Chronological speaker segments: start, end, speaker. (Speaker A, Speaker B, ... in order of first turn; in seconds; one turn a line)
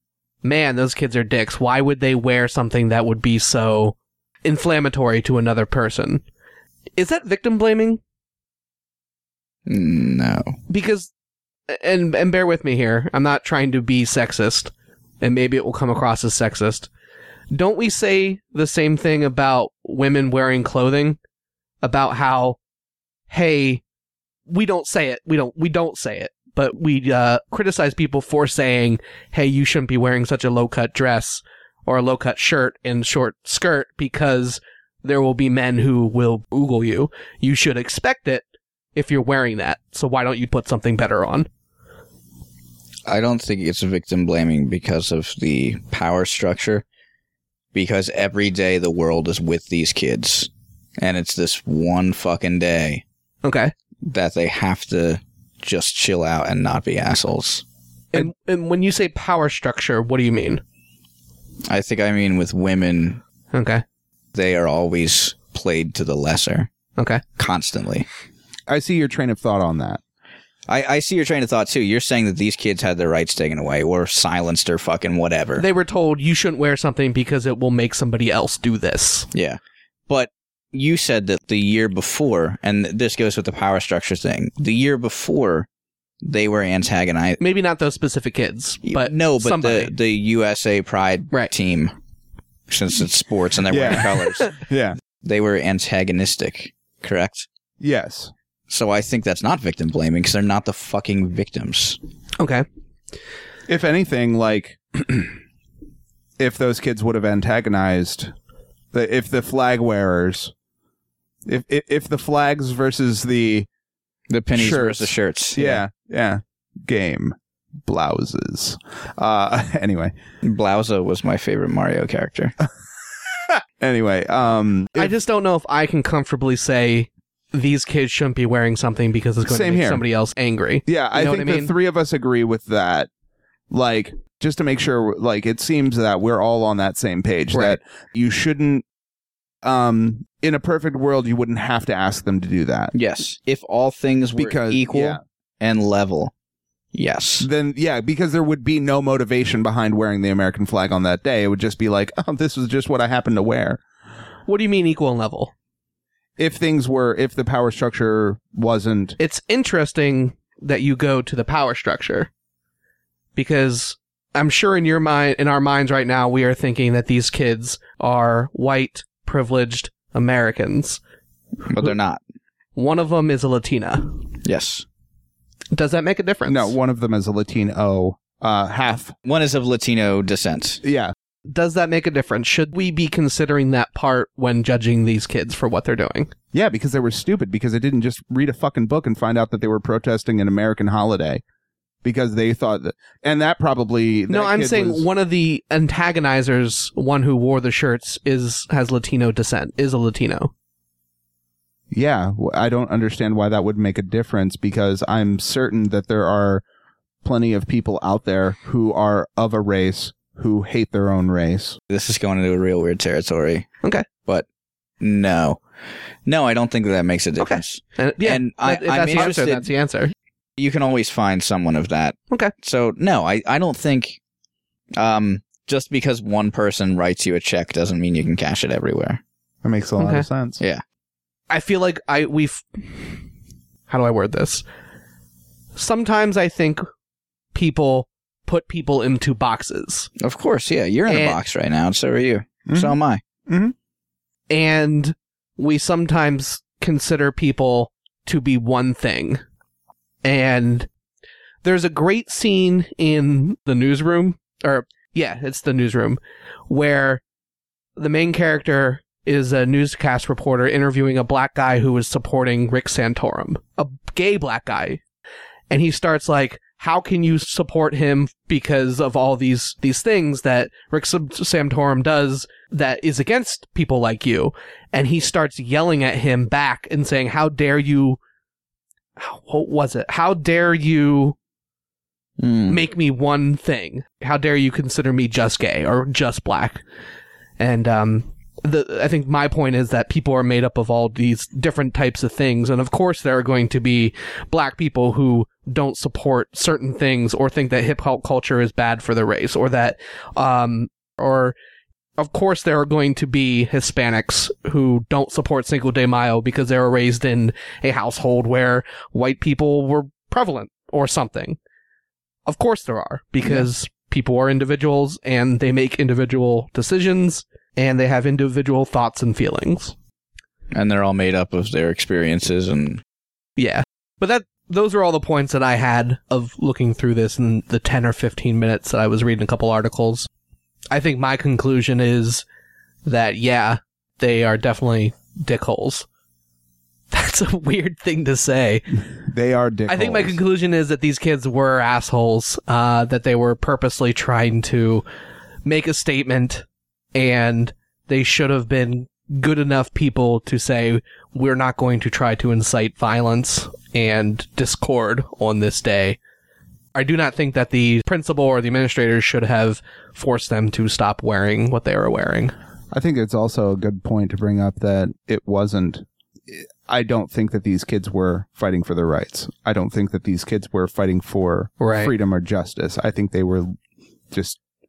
Speaker A: 0.4-6.2
Speaker A: 7.0-8.0
Speaker B: 9.7-10.6
Speaker A: 10.7-11.1
Speaker A: 11.7-16.9
Speaker A: 17.5-21.2
Speaker A: 21.8-22.6
Speaker A: 23.3-23.8
Speaker A: 24.5-38.4
Speaker A: 38.9-41.5
Speaker B: 43.1-46.8
Speaker B: 47.7-53.0
Speaker A: 53.4-53.7
Speaker B: 54.0-57.6
Speaker A: 58.1-60.6
Speaker B: 61.7-63.2
Speaker A: 63.5-63.8
Speaker B: 64.3-66.7
Speaker A: 67.0-67.2
Speaker B: 67.3-68.1
Speaker C: 68.7-70.0
Speaker B: 70.7-75.6
Speaker A: 75.6-79.3
Speaker B: 79.3-85.7
Speaker B: 86.2-87.4
Speaker A: 87.4-89.9
Speaker B: 88.8-91.9
Speaker B: 92.7-94.5
Speaker C: 93.7-95.0
Speaker B: 95.2-97.5
Speaker C: 97.8-98.3
Speaker B: 98.7-102.0
Speaker A: 102.4-102.6
Speaker C: 103.7-105.3
Speaker C: 106.4-108.3
Speaker C: 108.9-110.5
Speaker C: 111.5-113.7
Speaker B: 114.3-115.8
Speaker C: 114.5-120.1
Speaker B: 120.4-122.5
Speaker C: 123.5-125.1
Speaker A: 125.0-131.7
Speaker C: 129.4-130.0
Speaker C: 130.9-133.1
Speaker C: 133.7-138.8
Speaker A: 137.5-137.8
Speaker C: 139.6-142.9
Speaker B: 142.9-146.3
Speaker C: 144.4-145.2
Speaker B: 146.9-147.5
Speaker C: 147.4-153.8
Speaker A: 154.5-155.5
Speaker C: 156.4-159.2
Speaker A: 159.2-162.3
Speaker A: 163.3-171.0
Speaker B: 171.6-172.2
Speaker A: 172.8-174.2
Speaker B: 174.4-174.8
Speaker A: 175.7-176.7
Speaker C: 176.4-179.1
Speaker B: 179.2-180.8
Speaker C: 180.8-181.1
Speaker A: 181.4-186.3
Speaker C: 186.5-191.4
Speaker C: 192.0-195.1
Speaker A: 194.3-200.5
Speaker C: 201.9-206.6
Speaker C: 207.2-211.8
Speaker B: 211.9-213.7
Speaker B: 215.0-215.6
Speaker B: 216.2-219.7
Speaker A: 217.4-220.1
Speaker B: 220.6-224.2
Speaker B: 225.0-229.2
Speaker C: 229.6-230.6
Speaker A: 230.0-230.3
Speaker A: 231.5-233.2
Speaker A: 233.9-234.6
Speaker A: 235.7-236.9
Speaker A: 237.5-240.1
Speaker B: 240.2-243.2
Speaker A: 241.1-241.4
Speaker C: 242.7-242.9
Speaker C: 243.5-243.7
Speaker A: 244.5-249.4
Speaker A: 250.2-250.9
Speaker A: 251.6-257.2
Speaker A: 258.0-265.0
Speaker A: 265.7-278.2
Speaker A: 279.2-281.4
Speaker B: 282.4-282.8
Speaker A: 282.7-286.8
Speaker A: 287.6-301.5
Speaker A: 302.2-311.6
Speaker A: 312.5-319.9
Speaker B: 320.7-323.0
Speaker A: 323.6-330.3
Speaker A: 330.9-332.4
Speaker A: 333.0-336.1
Speaker A: 337.1-339.0
Speaker C: 339.2-340.4
Speaker A: 339.9-345.0
Speaker A: 345.6-356.2
Speaker A: 356.9-362.5
Speaker C: 362.9-373.8
Speaker A: 371.8-372.1
Speaker C: 374.3-374.6